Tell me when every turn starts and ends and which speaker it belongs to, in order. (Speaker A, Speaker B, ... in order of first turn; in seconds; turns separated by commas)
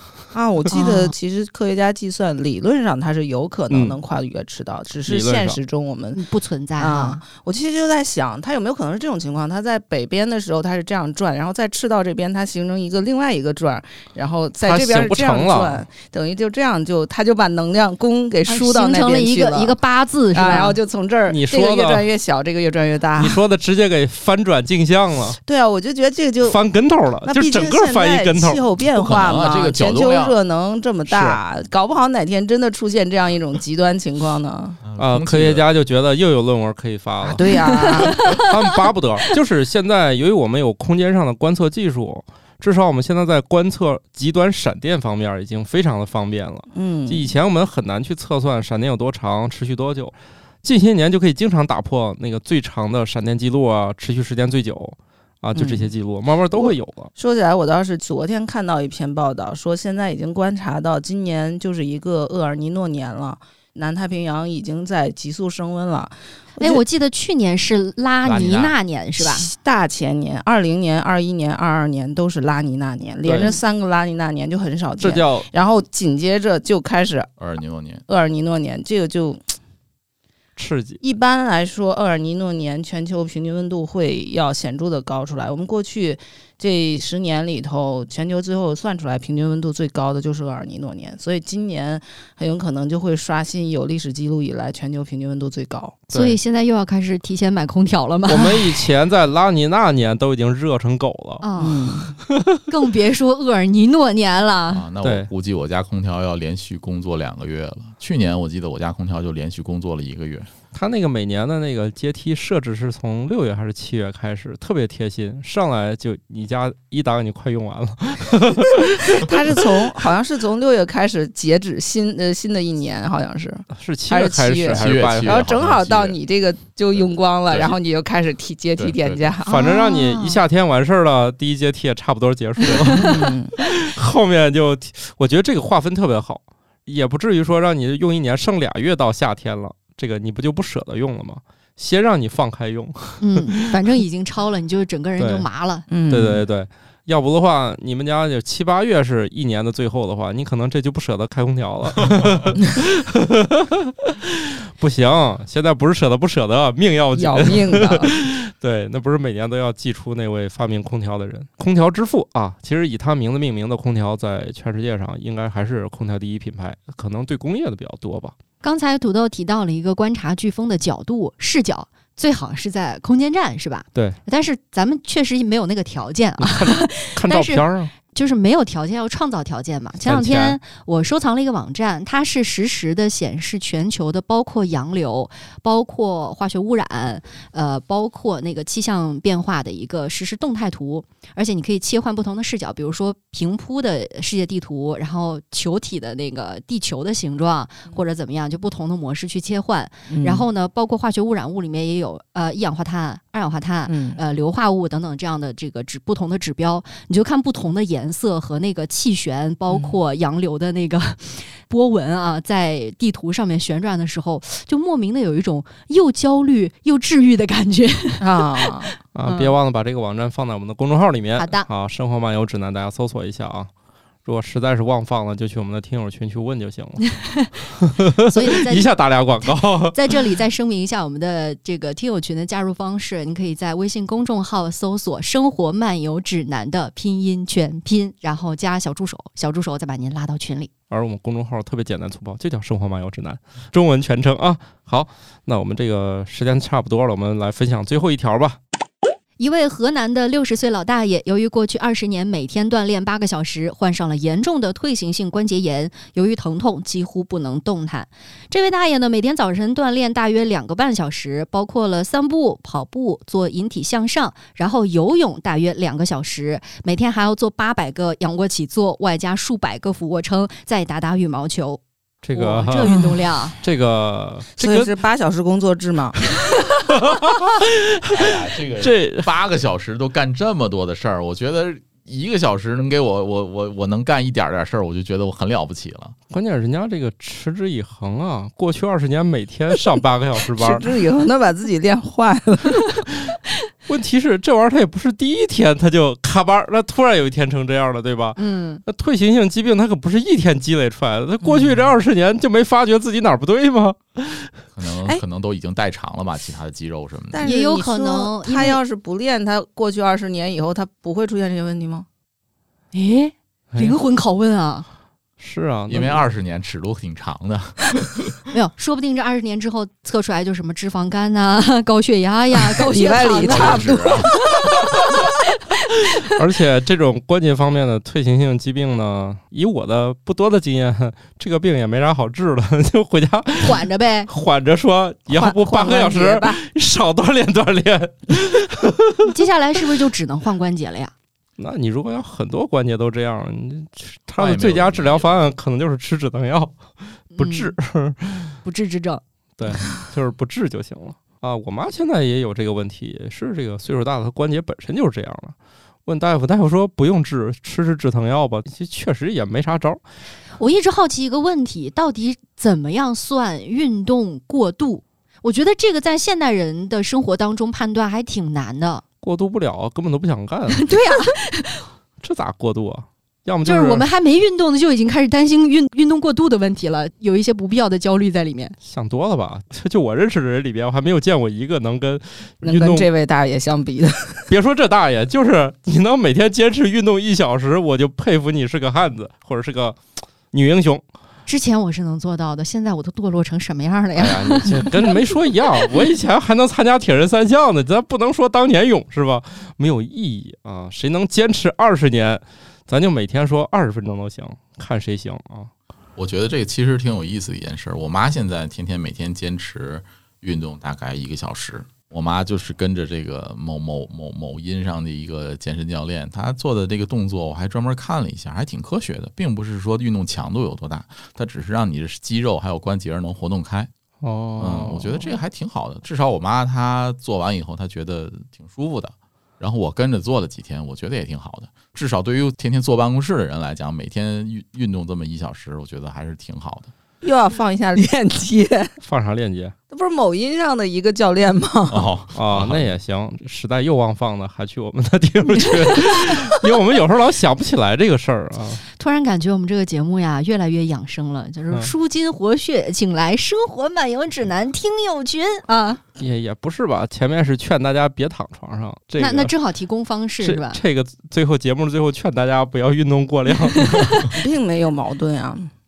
Speaker A: 0.3-6.2, Speaker B: 0.7-1.1, Speaker C: 3.7-4.0, Speaker C: 5.0-5.6, Speaker B: 6.1-7.2, Speaker A: 6.8-19.8, Speaker C: 14.6-15.8, Speaker B: 18.5-20.8, Speaker A: 20.3-23.4, Speaker C: 21.3-22.1, Speaker C: 23.2-25.4, Speaker A: 25.5-26.6, Speaker C: 26.4-28.6, Speaker A: 27.2-34.8, Speaker D: 29.0-30.4, Speaker D: 34.8-35.8, Speaker C: 35.0-57.1, Speaker A: 37.3-38.2, Speaker B: 37.9-38.5, Speaker A: 46.7-47.3, Speaker A: 55.5-55.9, Speaker A: 56.5-66.8, Speaker B: 66.6-69.5, Speaker D: 68.2-68.8, Speaker A: 69.2-77.3, Speaker C: 73.2-73.6, Speaker C: 75.0-75.5, Speaker D: 77.4-78.0, Speaker A: 78.1-79.4, Speaker C: 80.6-81.0, Speaker A: 81.0-96.0, Speaker C: 96.1-96.4, Speaker B: 96.1-98.8, Speaker C: 98.3-101.5, Speaker B: 101.4-102.0, Speaker A: 101.6-102.2, Speaker B: 102.7-104.8, Speaker D: 104.7-110.5, Speaker C: 105.0-105.3, Speaker C: 110.7-119.0, Speaker A: 119.0-129.6, Speaker C: 123.7-125.4, Speaker D: 124.7-126.2, Speaker D: 127.0-127.8, Speaker D: 128.8-129.3, Speaker C: 129.5-144.0, Speaker B: 129.5-130.4, Speaker D: 132.6-133.1, Speaker A: 133.0-133.5, Speaker B: 143.2-145.9, Speaker C: 145.2-145.5, Speaker A: 145.9-146.4, Speaker C: 146.1-168.3, Speaker A: 157.1-158.2, Speaker B: 168.6-219.5, Speaker C: 176.4-177.9, Speaker C: 180.1-180.6, Speaker A: 200.1-200.5, Speaker A: 203.9-204.2, Speaker A: 209.7-210.0, Speaker A: 218.2-218.9, Speaker C: 219.2-223.7, Speaker B: 221.4-221.7, Speaker C: 224.2-227.2, Speaker C: 227.8-230.2, Speaker B: 228.3-228.9, Speaker B: 229.4-240.7, Speaker C: 240.9-248.6, Speaker B: 249.4-271.8, Speaker C: 272.2-272.9, Speaker B: 272.3-273.6, Speaker A: 272.8-273.3, Speaker C: 273.6-274.9, Speaker A: 274.6-276.4, Speaker C: 277.1-279.3, Speaker D: 278.1-286.2, Speaker C: 286.3-290.9, Speaker A: 290.6-293.1, Speaker C: 293.9-304.5, Speaker B: 298.4-298.8, Speaker A: 301.4-301.9, Speaker D: 304.8-307.4, Speaker A: 307.3-312.1, Speaker B: 307.4-308.8, Speaker B: 312.9-314.9, Speaker C: 313.7-314.0, Speaker C: 315.4-316.2, Speaker D: 315.9-318.4, Speaker B: 318.5-324.1, Speaker A: 322.6-324.5, Speaker D: 323.2-324.5, Speaker C: 326.3-339.3, Speaker B: 333.6-334.3, Speaker A: 335.3-336.6, Speaker B: 339.2-341.1, Speaker C: 341.6-346.8, Speaker D: 344.4-345.5, Speaker C: 347.3-348.6, Speaker B: 347.4-347.7, Speaker B: 348.6-350.0, Speaker C: 349.6-355.6, Speaker C: 356.1-360.0, Speaker B: 360.6-369.0, Speaker C: 369.2-370.9, Speaker B: 370.7-371.9, Speaker C: 372.2-374.1, Speaker B: 373.7-378.8, Speaker C: 378.8-383.1, Speaker A: 382.6-384.5, Speaker C: 384.5-391.0, Speaker B: 391.5-395.9, Speaker C: 394.1-405.7, Speaker D: 406.2-423.9, Speaker C: 424.2-425.3, Speaker D: 424.6-436.9, Speaker A: 437.2-438.9, Speaker C: 439.0-439.8, Speaker A: 439.9-442.1, Speaker D: 441.9-442.9, Speaker C: 442.4-448.8, Speaker B: 449.0-456.0, Speaker C: 456.2-459.5, Speaker B: 459.2-460.8, Speaker C: 460.4-464.3, Speaker A: 464.3-465.7